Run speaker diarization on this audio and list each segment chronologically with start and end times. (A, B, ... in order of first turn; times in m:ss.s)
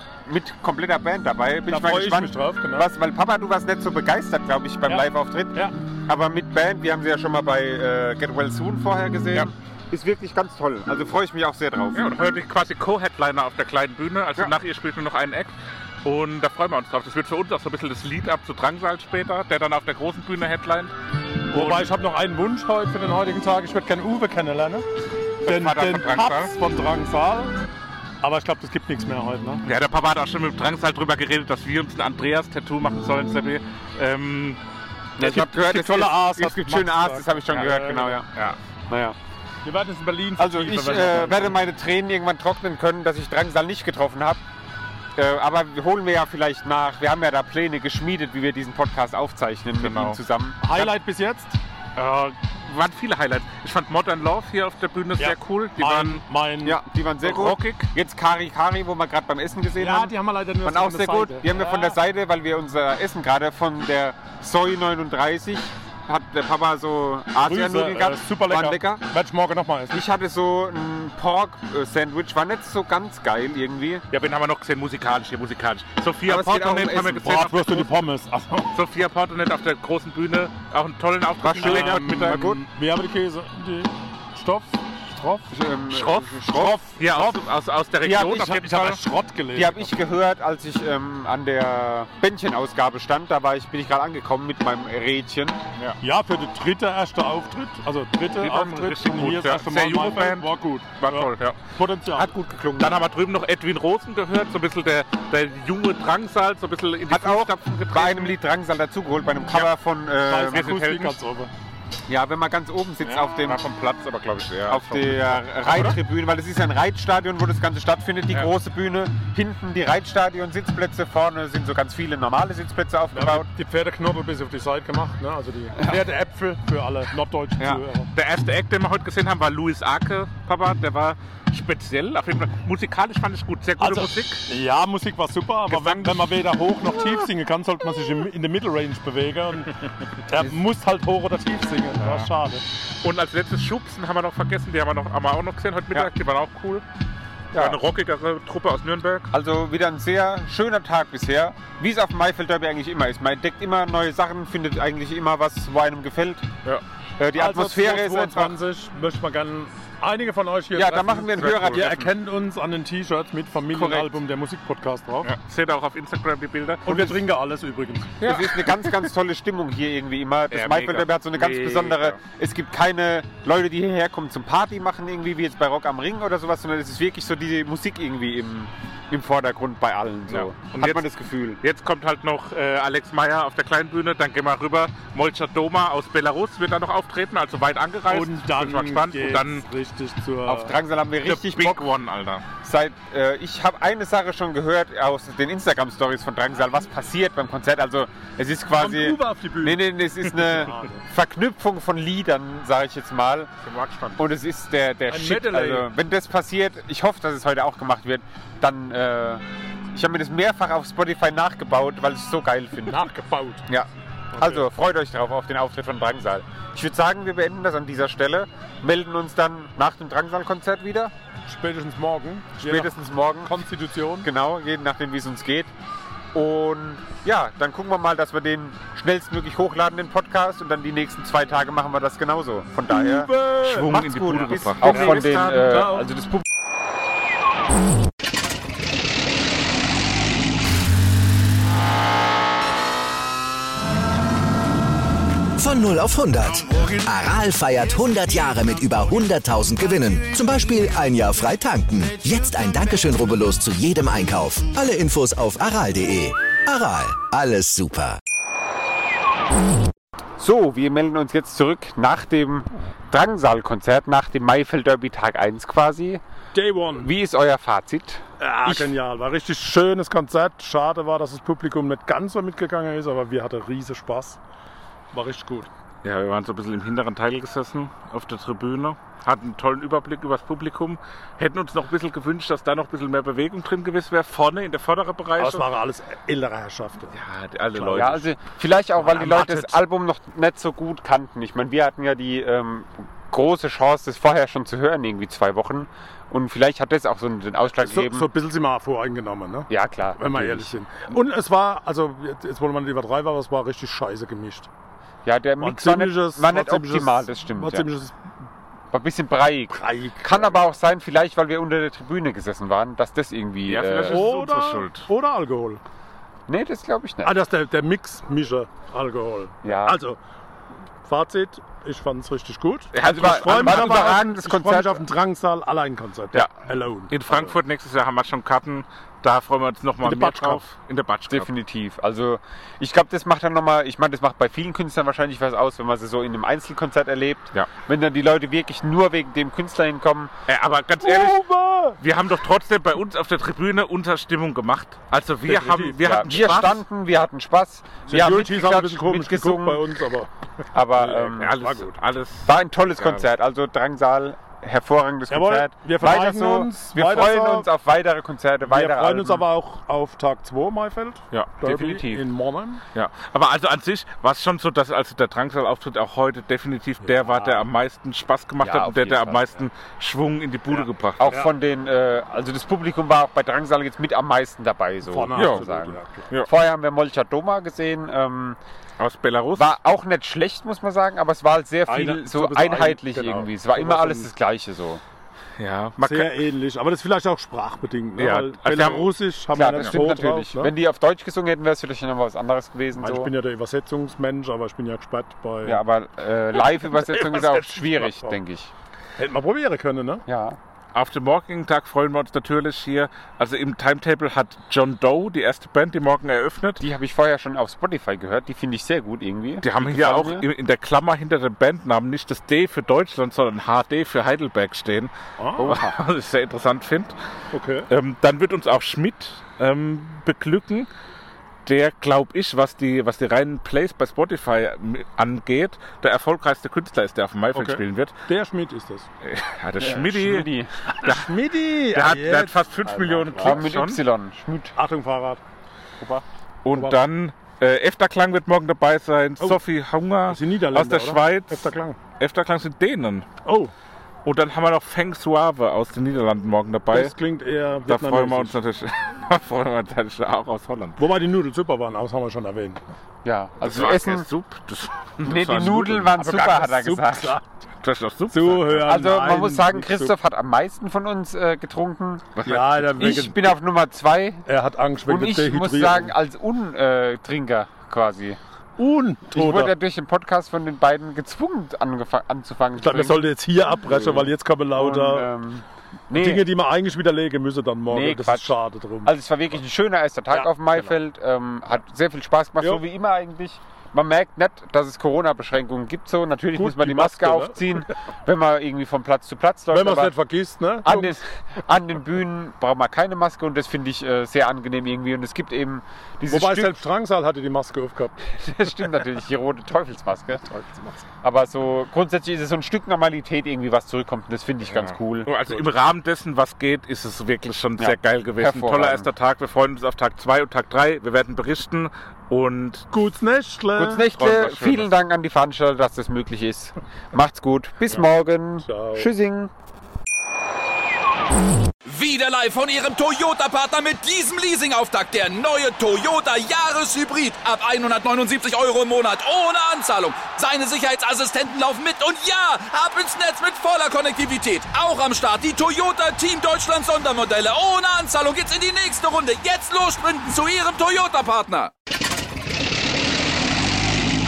0:00.3-0:12.1 A
0:01.7-0:02.9 B
0:04.9-0:05.7 B
0:11.9-0:20.9 C
0:21.5-0:24.8 B
0:21.5-0:21.9 C
0:25.4-0:26.5 C
0:25.4-0:27.5 B
0:28.2-0:29.6 B
0:29.6-0:34.6 C
0:35.2-0:38.3 A
0:35.2-0:38.2 B
0:38.3-0:38.6 C
0:38.9-0:39.2 A
0:39.6-0:41.6 B
0:40.4-0:44.4 A
0:45.2-0:50.9 A
0:49.8-0:50.2 C
0:50.6-0:51.6 B
0:52.0-0:56.2 C
0:55.2-0:56.8 B
0:56.6-1:00.1 A
0:57.2-0:57.9 C
0:59.8-1:02.0 B
1:00.6-1:09.0 A
1:07.4-1:10.0 B
1:09.9-1:14.0 A
1:14.1-1:17.9 C
1:16.2-1:17.3 A
1:17.2-1:18.7 B
1:18.7-1:22.4 C
1:21.4-1:22.6 A
1:21.6-1:25.5 B
1:25.5-1:26.9 A
1:25.9-1:29.0 C
1:28.0-1:28.6 A
1:28.1-1:30.0 B
1:29.5-1:35.6 A
1:36.0-1:42.3 B
1:38.4-1:41.6 C
1:42.1-1:43.0 A
1:42.8-1:48.4 C
1:47.1-1:50.7 A
1:50.3-1:51.5 B
1:50.5-1:51.2 C
1:52.1-1:53.6 A
1:53.0-1:56.0 C
1:54.7-2:03.5 A
2:03.1-2:08.1 B
2:07.6-2:14.5 C
2:13.8-2:22.6 B
2:15.7-2:16.4 C
2:22.0-2:22.3 C
2:23.0-2:26.8 C
2:27.5-2:27.8 A
2:27.5-2:29.3 C
2:29.3-2:36.5 A
2:37.2-2:38.5 A
2:37.3-2:45.3 B
2:40.7-2:42.1 A
2:43.7-2:44.1 A
2:45.2-2:47.1 C
2:46.8-2:48.2 B
2:48.2-2:48.9 C
2:48.2-3:01.6 A
2:50.5-2:52.2 C
3:00.3-3:01.1 C
3:01.6-3:09.6 C
3:08.1-3:10.7 B
3:10.4-3:11.8 A
3:11.2-3:12.4 C
3:12.6-3:23.5 A
3:18.8-3:19.8 B
3:20.4-3:21.0 B
3:23.6-3:24.2 C
3:24.2-3:33.0 A
3:25.1-3:25.9 B
3:32.8-3:33.6 B
3:33.7-3:41.1 A
3:34.3-3:34.7 B
3:41.5-3:44.3 B
3:42.6-3:43.5 A
3:44.2-3:45.7 A
3:46.3-3:53.3 A
3:52.9-3:56.1 B
3:53.6-3:55.9 C
3:53.9-3:56.4 A
4:05.6-4:18.2 D
4:20.4-4:26.2 A
4:26.5-4:27.1 B
4:27.0-4:28.9 A
4:28.4-4:34.4 B
4:35.1-4:35.7 B
4:36.0-4:45.6 C
4:45.4-4:47.1 B
4:47.1-4:48.3 C
4:47.8-4:58.3 A
4:49.0-4:49.8 B
4:57.8-5:04.7 B
4:59.7-5:00.7 A
5:05.2-5:07.9 A
5:05.6-5:08.1 B
5:08.9-5:14.3 A
5:09.7-5:10.6 B
5:13.7-5:15.1 C
5:14.1-5:15.8 B
5:16.5-5:17.3 A
5:17.2-5:20.2 B
5:19.6-5:20.0 A
5:21.0-5:27.5 B
5:22.9-5:24.2 C
5:23.0-5:25.1 A
5:27.1-5:31.5 C
5:30.0-5:30.6 B
5:31.3-5:40.3 A
5:40.5-5:41.4 C
5:41.0-5:42.0 B
5:42.0-5:46.8 C
5:45.4-5:46.0 B
5:46.0-5:49.8 A
5:48.1-5:50.3 B
5:50.7-5:51.5 A
5:50.9-5:52.0 B
5:51.4-5:53.2 C
5:52.4-5:59.4 A
5:55.3-5:57.7 B
5:58.6-6:02.8 B
6:01.3-6:02.2 C
6:02.9-6:11.2 C
6:07.0-6:07.7 B
6:08.6-6:09.4 A
6:11.2-6:18.6 A
6:15.0-6:16.3 B
6:15.4-6:15.6 C
6:19.0-6:19.7 C
6:19.6-6:25.0 A
6:21.9-6:24.3 B
6:25.6-6:26.4 C
6:26.0-6:30.7 B
6:28.2-6:29.1 C
6:29.5-6:33.3 A
6:32.9-6:35.8 B
6:35.6-6:38.7 A
6:36.6-6:38.4 B
6:39.2-6:40.2 B
6:40.3-6:40.6 A
6:40.9-6:46.8 C
6:46.8-6:50.5 A
6:49.6-6:57.1 C
6:55.4-6:55.7 B
6:57.5-6:57.9 B
6:57.9-7:00.9 C
7:01.6-7:08.1 C
7:07.5-7:09.1 B
7:09.2-7:10.4 C
7:09.8-7:10.9 A
7:11.0-7:12.6 B
7:11.9-7:14.0 C
7:12.8-7:14.7 A
7:13.4-7:13.7 B
7:14.8-7:15.4 B
7:16.0-7:16.2 A
7:16.6-7:23.2 C
7:16.7-7:17.0 B
7:20.3-7:22.0 B
7:23.4-7:23.7 B
7:24.2-7:27.1 C
7:26.9-7:28.6 B
7:27.8-7:31.0 C
7:31.0-7:32.8 B
7:33.2-7:34.3 A
7:33.6-7:36.3 C
7:35.2-7:37.4 A
7:36.2-7:37.4 B
7:37.8-7:38.8 C
7:38.3-7:40.1 B
7:38.8-7:42.4 A
7:42.4-7:42.8 C
7:42.4-7:43.5 B
7:43.0-7:44.4 A
7:44.4-7:46.1 B
7:45.1-7:48.4 A
7:48.8-7:49.7 B
7:49.3-7:56.4 A
7:52.8-7:55.3 B
7:56.1-7:59.1 B
7:57.9-7:58.5 A
7:59.0-8:10.1 A
8:06.5-8:07.6 B
8:09.7-8:11.2 B
8:10.8-8:16.8 A
8:16.3-8:18.2 B
8:18.2-8:20.5 A
8:20.5-8:21.0 B
8:21.2-8:25.3 A
8:24.7-8:32.9 C
8:27.8-8:29.1 A
8:32.9-8:34.1 B
8:33.7-8:39.5 A
8:34.1-8:34.9 C
8:38.6-8:39.1 B
8:41.9-9:01.7 E